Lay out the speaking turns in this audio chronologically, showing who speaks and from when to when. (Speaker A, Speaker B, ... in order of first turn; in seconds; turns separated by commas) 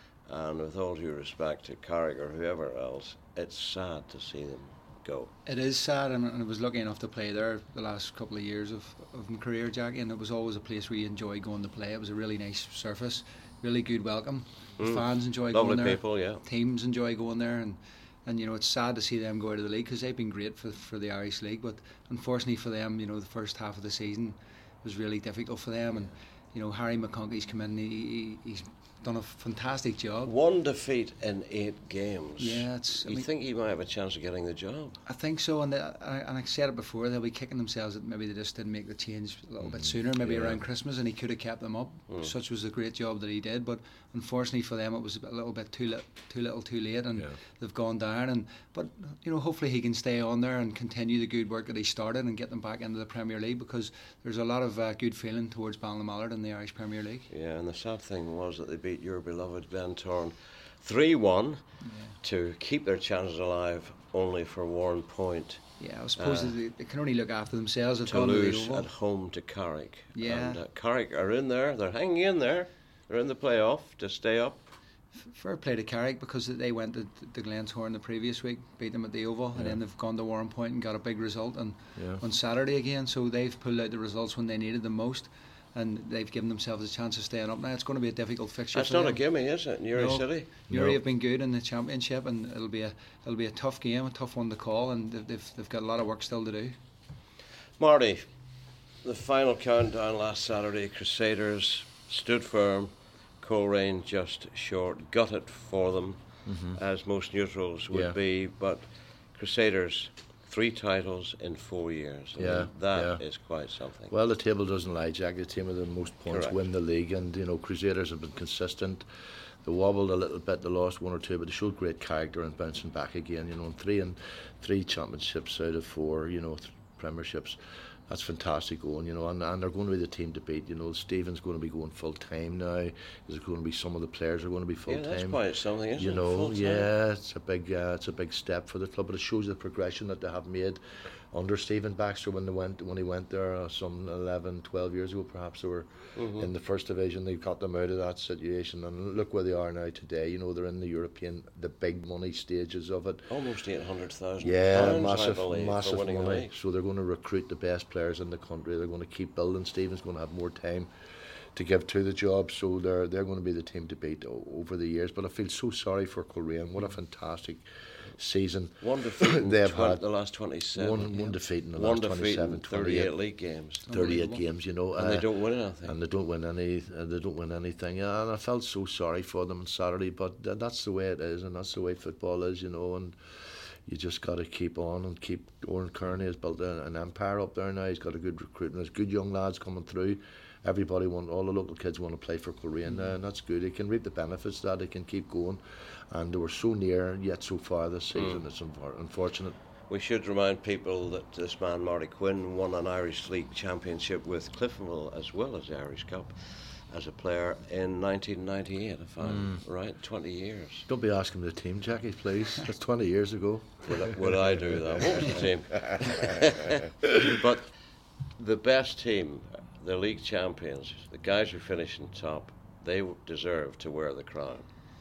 Speaker A: 0.3-5.3, Speaker B: 5.5-30.3, Speaker A: 14.8-16.4, Speaker A: 30.2-35.0, Speaker B: 32.4-33.3, Speaker B: 35.1-57.3, Speaker C: 39.6-40.6, Speaker A: 57.3-61.7, Speaker B: 61.8-62.2, Speaker A: 62.2-66.6, Speaker B: 65.8-68.9, Speaker A: 68.0-74.6, Speaker B: 70.1-70.6, Speaker B: 75.2-89.2, Speaker C: 82.0-82.2, Speaker A: 88.7-90.5, Speaker B: 90.0-96.8, Speaker C: 90.7-91.0, Speaker A: 97.8-98.3, Speaker A: 99.0-114.1, Speaker C: 106.5-106.8, Speaker C: 107.9-108.2, Speaker C: 112.3-113.2, Speaker C: 114.1-119.0, Speaker A: 116.3-116.6, Speaker C: 119.6-135.4, Speaker A: 134.9-136.9, Speaker C: 136.0-153.3, Speaker A: 146.2-146.5, Speaker A: 153.3-156.5, Speaker C: 154.4-160.9, Speaker C: 161.5-170.0, Speaker A: 168.8-173.8, Speaker C: 170.8-173.1, Speaker B: 173.8-174.4, Speaker C: 173.9-199.6, Speaker A: 174.9-176.0, Speaker A: 198.2-198.4, Speaker A: 199.9-210.8, Speaker C: 209.2-209.6, Speaker C: 210.9-216.4, Speaker A: 213.8-217.7, Speaker A: 218.3-224.7